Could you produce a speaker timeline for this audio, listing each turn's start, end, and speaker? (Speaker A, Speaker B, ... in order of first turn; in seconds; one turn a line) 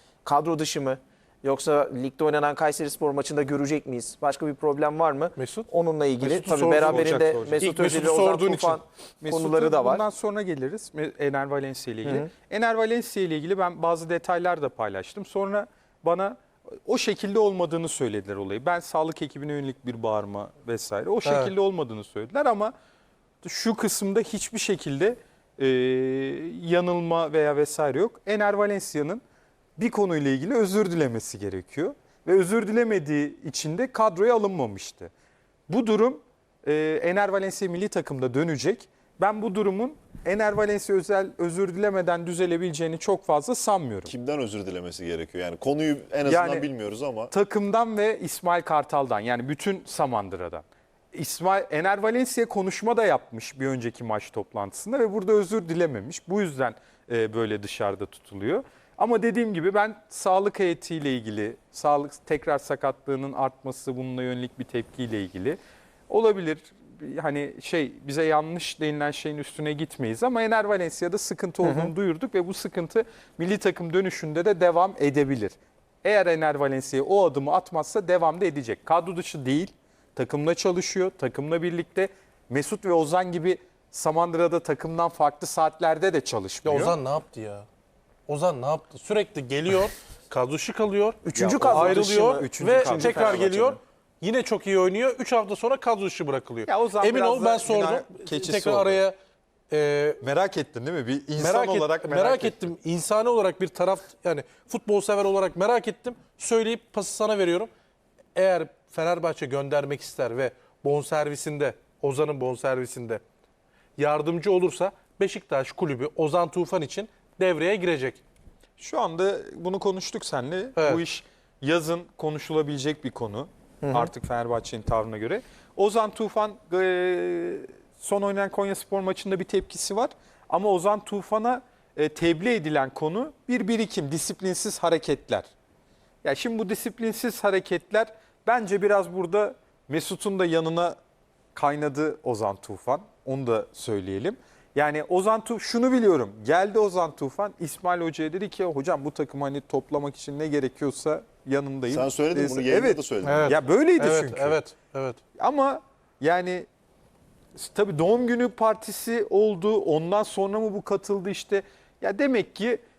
Speaker A: 0.2-10.0
Speaker B: 5.4-5.7
Speaker B: 6.2-8.8
Speaker C: 6.7-8.0
Speaker C: 9.2-22.7
Speaker B: 21.2-21.5
Speaker C: 23.4-29.2
Speaker C: 29.8-35.1
Speaker C: 35.7-44.1
Speaker D: 44.1-47.3
Speaker C: 46.2-46.7
Speaker C: 47.3-65.6
Speaker C: 66.1-87.0
Speaker A: 71.6-71.9
Speaker B: 86.6-87.7
Speaker B: 88.3-99.2
Speaker A: 91.2-93.8
Speaker C: 91.3-93.5
Speaker C: 96.7-99.0
Speaker B: 99.7-100.2
Speaker C: 100.2-102.6
Speaker B: 101.4-107.7
Speaker B: 108.3-113.2
Speaker B: 114.0-118.2
Speaker C: 118.8-135.5
Speaker A: 123.8-124.1
Speaker C: 136.2-141.0
Speaker C: 141.6-154.6
Speaker D: 151.9-153.6
Speaker B: 153.2-155.2
Speaker C: 155.4-156.7
Speaker C: 157.6-162.8